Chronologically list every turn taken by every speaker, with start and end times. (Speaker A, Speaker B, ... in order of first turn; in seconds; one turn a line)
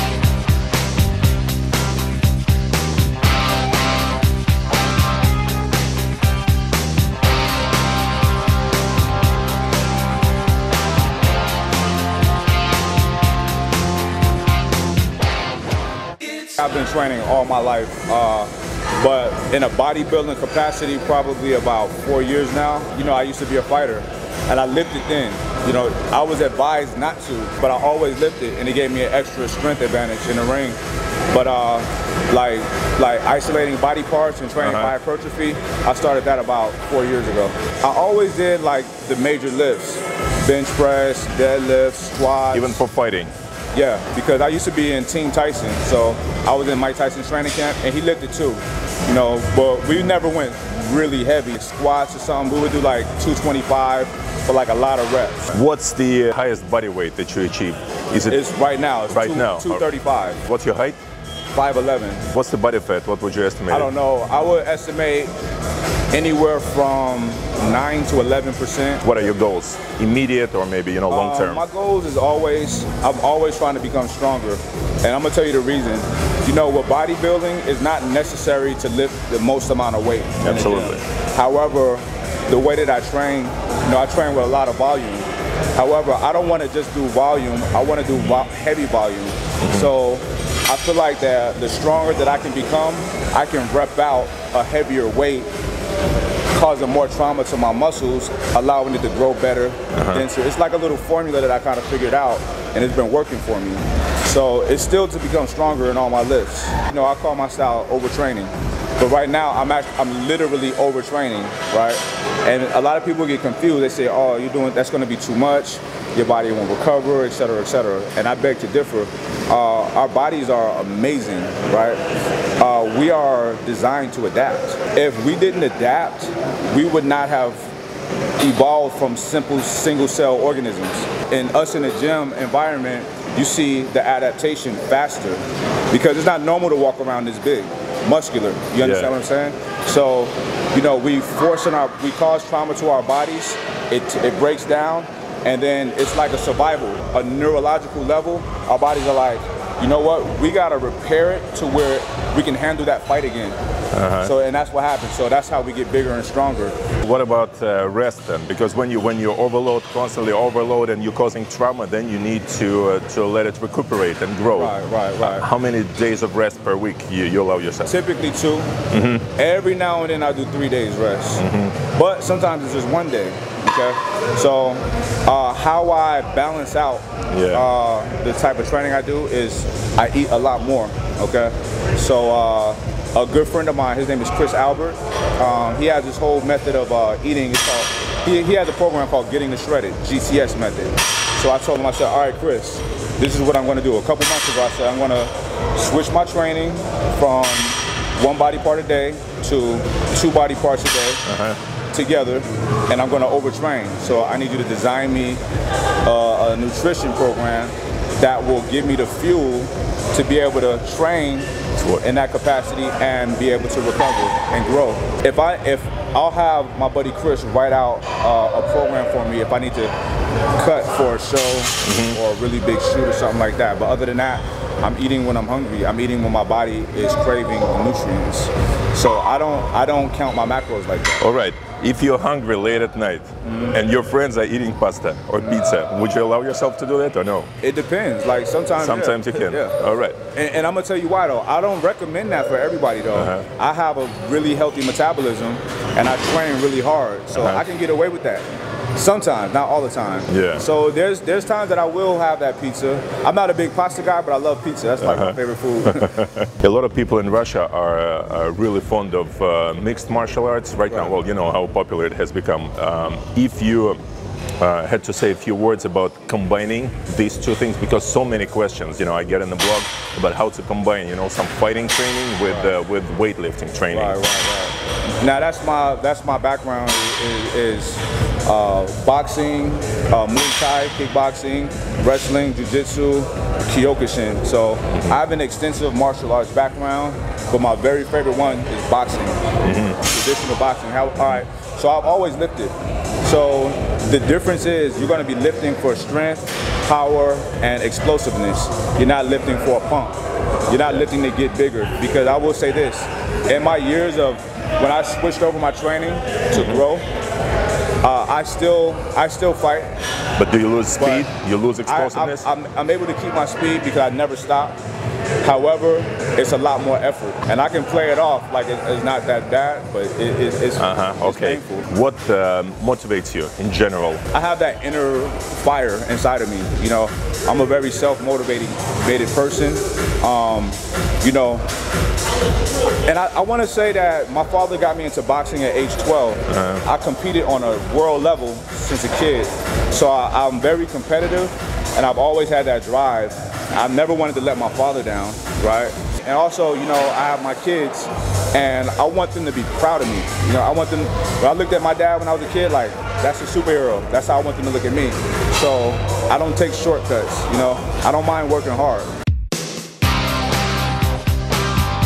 Speaker A: 16.6-30.8
Speaker A: 31.3-42.8
Speaker B: 34.6-34.9
Speaker B: 42.5-43.3
Speaker A: 43.7-55.5
Speaker B: 55.5-58.4
Speaker A: 58.3-60.4
Speaker B: 59.1-59.9
Speaker B: 60.4-61.0
Speaker A: 61.5-62.3
Speaker B: 62.3-63.9
Speaker A: 63.7-65.3
Speaker A: 66.1-69.0
Speaker B: 69.0-71.7
Speaker A: 71.1-95.5
Speaker B: 80.4-81.0
Speaker B: 89.6-89.9
Speaker A: 96.5-122.0
Speaker B: 99.9-100.3
Speaker A: 122.6-127.7
Speaker A: 128.4-153.6
Speaker B: 138.8-139.2
Speaker B: 153.9-154.3
Speaker A: 154.2-156.8
Speaker B: 157.0-168.0
Speaker A: 164.6-165.5
Speaker A: 167.9-168.7
Speaker B: 168.9-169.3
Speaker A: 169.4-201.2
Speaker B: 171.4-171.8
Speaker B: 177.3-177.7
Speaker B: 201.3-201.6
Speaker A: 201.9-205.4
Speaker A: 206.0-211.5
Speaker B: 211.8-212.1
Speaker A: 212.0-219.9
Speaker A: 220.6-231.2
Speaker B: 221.8-222.2
Speaker B: 231.2-237.5
Speaker A: 233.4-233.8
Speaker A: 237.6-239.8
Speaker B: 238.8-240.2
Speaker A: 240.3-256.2
Speaker B: 243.2-243.5
Speaker B: 247.3-247.7
Speaker B: 250.3-250.7
Speaker B: 255.0-264.0
Speaker B: 264.6-274.2
Speaker A: 273.9-289.4
Speaker B: 284.9-285.2
Speaker B: 289.6-290.0
Speaker A: 290.0-300.2
Speaker A: 300.7-307.1
Speaker B: 306.5-306.8
Speaker A: 308.0-310.0
Speaker B: 310.4-312.5
Speaker A: 311.0-311.3
Speaker A: 311.9-314.8
Speaker A: 315.4-321.9
Speaker B: 320.8-324.2
Speaker A: 324.3-331.7
Speaker A: 333.0-359.1
Speaker B: 336.5-336.9